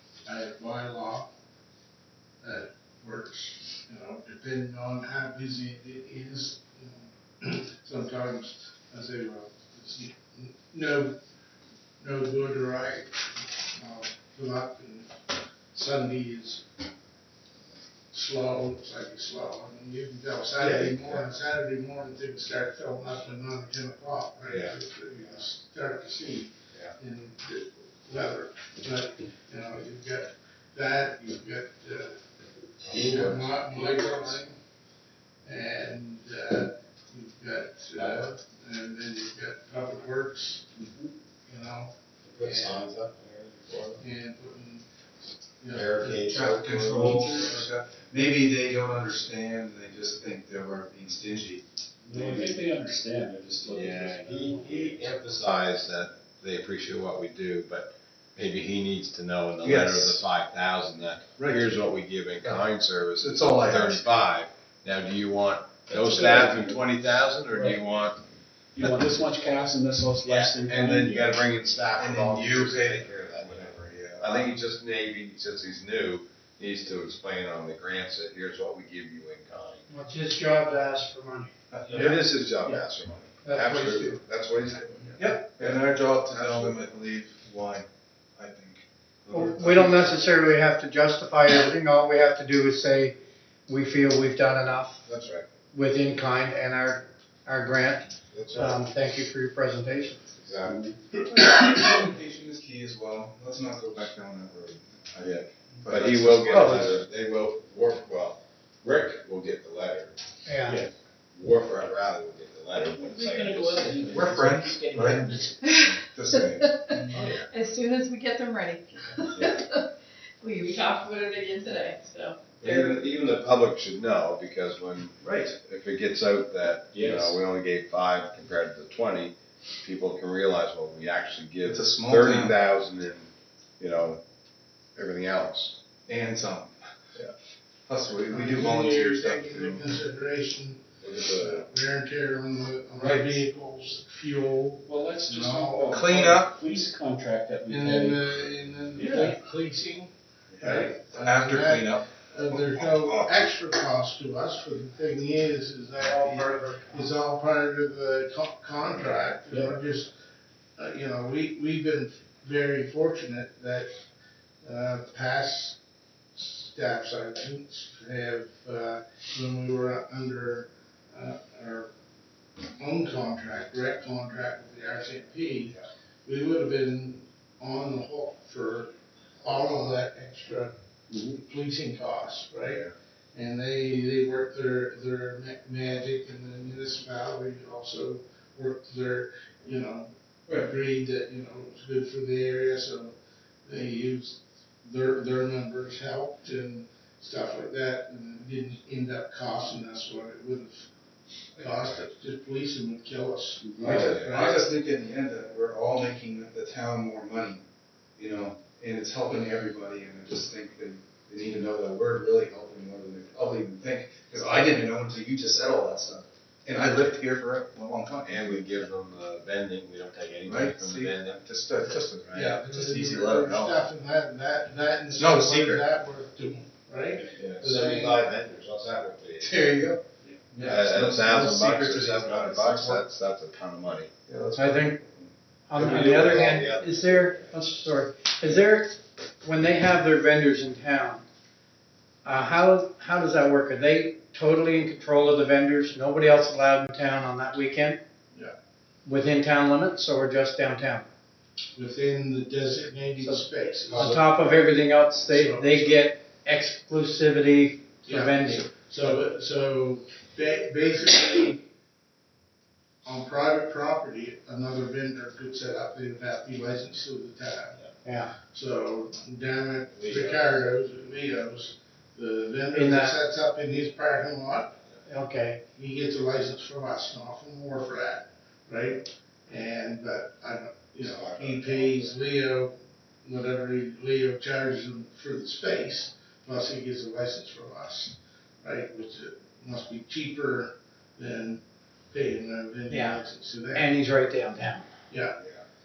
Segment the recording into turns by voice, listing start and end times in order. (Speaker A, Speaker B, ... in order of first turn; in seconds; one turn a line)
Speaker A: 0.2-1.3
Speaker A: 2.4-11.2
Speaker A: 12.0-15.1
Speaker A: 15.7-16.6
Speaker A: 18.1-32.2
Speaker B: 24.5-24.7
Speaker B: 32.9-33.7
Speaker A: 32.9-34.5
Speaker A: 35.4-40.6
Speaker B: 38.0-38.2
Speaker A: 41.5-42.8
Speaker B: 42.3-44.0
Speaker A: 44.0-44.9
Speaker A: 45.6-47.6
Speaker B: 45.7-47.1
Speaker C: 46.2-51.6
Speaker B: 52.1-52.5
Speaker D: 52.1-55.1
Speaker B: 53.7-68.2
Speaker C: 59.6-60.2
Speaker C: 61.4-61.8
Speaker C: 63.2-64.0
Speaker D: 65.9-66.8
Speaker D: 67.5-67.8
Speaker D: 68.8-71.3
Speaker B: 70.2-79.8
Speaker C: 72.0-74.5
Speaker E: 79.9-81.5
Speaker C: 81.7-82.2
Speaker B: 81.9-86.9
Speaker E: 83.4-84.2
Speaker C: 85.2-90.1
Speaker B: 89.3-89.8
Speaker E: 89.3-93.2
Speaker E: 93.7-95.0
Speaker B: 95.0-95.5
Speaker E: 95.7-100.3
Speaker B: 98.3-98.9
Speaker B: 100.3-100.8
Speaker D: 100.6-100.9
Speaker C: 101.3-106.9
Speaker B: 105.2-110.2
Speaker E: 106.5-106.9
Speaker E: 110.5-110.8
Speaker B: 111.3-114.2
Speaker D: 112.9-115.7
Speaker C: 114.0-117.2
Speaker B: 117.1-117.5
Speaker F: 117.5-119.8
Speaker F: 120.4-123.0
Speaker B: 122.6-134.2
Speaker C: 125.2-125.6
Speaker C: 131.6-132.6
Speaker B: 134.9-135.8
Speaker C: 136.1-137.3
Speaker C: 137.9-140.0
Speaker A: 138.3-146.0
Speaker B: 141.0-141.6
Speaker C: 143.0-143.4
Speaker D: 144.8-148.3
Speaker C: 145.9-146.6
Speaker A: 147.7-160.1
Speaker D: 148.9-149.4
Speaker C: 150.5-153.4
Speaker E: 156.0-157.1
Speaker A: 160.8-163.9
Speaker A: 164.6-165.8
Speaker A: 166.3-171.9
Speaker A: 172.8-180.7
Speaker D: 181.1-181.4
Speaker A: 181.3-200.9
Speaker C: 201.6-202.1
Speaker A: 201.6-204.6
Speaker D: 203.6-204.1
Speaker C: 203.8-207.6
Speaker B: 203.9-204.3
Speaker C: 208.2-218.8
Speaker B: 218.2-223.8
Speaker C: 220.4-222.6
Speaker A: 222.3-228.2
Speaker C: 225.1-225.8
Speaker B: 227.4-229.8
Speaker C: 229.4-233.0
Speaker B: 230.6-234.1
Speaker C: 234.3-236.2
Speaker E: 234.6-234.9
Speaker E: 235.7-241.2
Speaker B: 235.7-237.5
Speaker E: 242.2-248.0
Speaker E: 249.0-251.1
Speaker A: 251.7-256.0
Speaker E: 253.2-259.1
Speaker A: 258.1-261.6
Speaker A: 263.0-267.8
Speaker E: 268.0-268.3
Speaker A: 268.5-274.8
Speaker B: 270.0-270.5
Speaker E: 272.7-273.2
Speaker E: 275.1-275.6
Speaker A: 275.7-293.9
Speaker B: 281.0-282.1
Speaker E: 292.9-293.2
Speaker E: 293.7-294.8
Speaker A: 295.1-295.4